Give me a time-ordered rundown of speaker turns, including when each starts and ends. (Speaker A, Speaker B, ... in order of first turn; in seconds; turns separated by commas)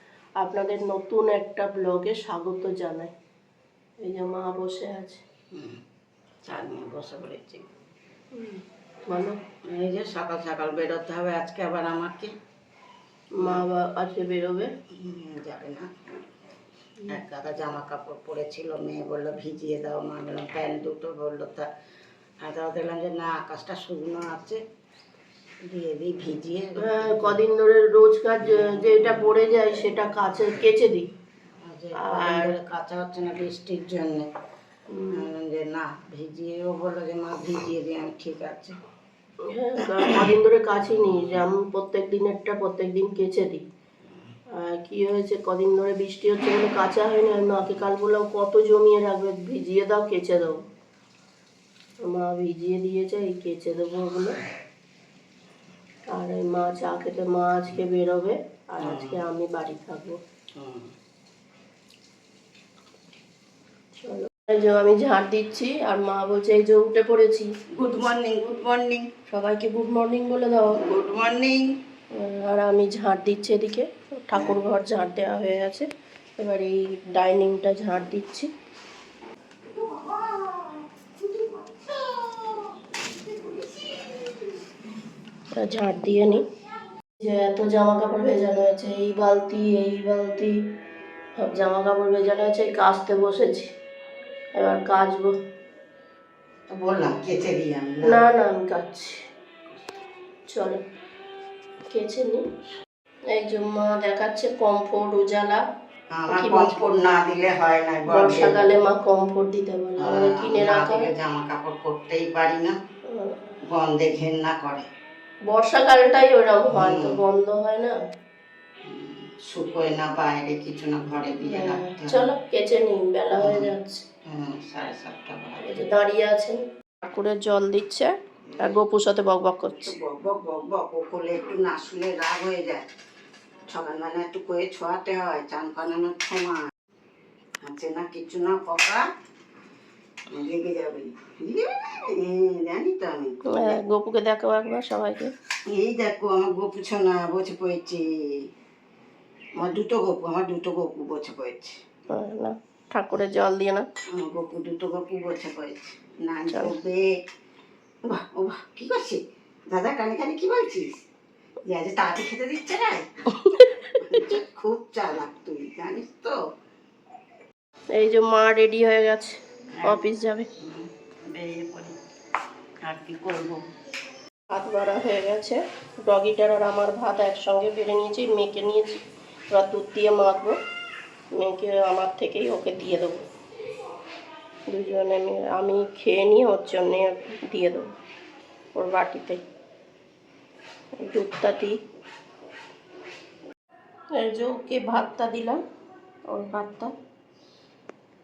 Speaker A: 0.4-3.1, Speaker A: 4.0-5.2, Speaker B: 5.5-5.8, Speaker B: 6.4-7.7, Speaker A: 8.3-9.4, Speaker B: 9.6-12.3, Speaker A: 13.4-14.7, Speaker B: 13.4-13.7, Speaker B: 14.9-16.2, Speaker B: 17.1-21.7, Speaker B: 22.4-24.6, Speaker B: 25.6-27.4, Speaker A: 26.8-31.1, Speaker B: 28.4-29.9, Speaker B: 31.6-34.3, Speaker A: 31.9-32.5, Speaker A: 34.9-35.3, Speaker B: 35.1-38.8, Speaker A: 39.4-43.6, Speaker B: 39.8-40.3, Speaker A: 44.5-50.6, Speaker A: 52.0-54.4, Speaker A: 56.1-60.2, Speaker B: 58.8-59.2, Speaker B: 60.5-60.9, Speaker A: 64.0-67.5, Speaker B: 67.7-69.0, Speaker A: 69.3-70.8, Speaker B: 70.7-71.7, Speaker A: 72.1-75.9, Speaker B: 74.3-74.6, Speaker A: 76.4-78.5, Speaker B: 79.7-84.5, Speaker A: 85.6-86.4, Speaker A: 87.2-90.5, Speaker A: 91.4-93.7, Speaker A: 94.5-95.3, Speaker B: 96.7-98.2, Speaker A: 98.0-99.2, Speaker A: 100.5-100.8, Speaker A: 101.9-102.5, Speaker A: 103.3-105.6, Speaker B: 106.1-108.6, Speaker A: 106.3-106.9, Speaker A: 108.1-111.1, Speaker B: 110.0-112.8, Speaker A: 113.1-113.4, Speaker B: 113.6-114.9, Speaker A: 115.5-117.9, Speaker B: 116.7-117.2, Speaker B: 118.8-122.3, Speaker A: 121.5-124.0, Speaker B: 123.4-123.7, Speaker B: 124.2-125.9, Speaker A: 125.6-129.9, Speaker B: 128.5-128.8, Speaker B: 129.8-132.8, Speaker B: 133.7-136.6, Speaker B: 137.6-139.1, Speaker B: 140.3-143.8, Speaker A: 143.5-145.3, Speaker B: 145.7-148.5, Speaker B: 149.6-151.8, Speaker A: 152.1-153.9, Speaker B: 154.1-157.1, Speaker A: 156.5-156.7, Speaker B: 158.1-160.9, Speaker B: 161.7-163.1, Speaker A: 163.3-164.3, Speaker B: 164.0-166.4, Speaker A: 167.9-170.5, Speaker B: 170.6-172.0, Speaker B: 172.8-173.6, Speaker A: 174.5-179.0, Speaker A: 179.5-180.6, Speaker A: 181.3-183.2, Speaker A: 184.7-187.9, Speaker A: 188.8-189.4, Speaker A: 191.0-191.8, Speaker A: 194.2-195.6, Speaker A: 196.3-196.9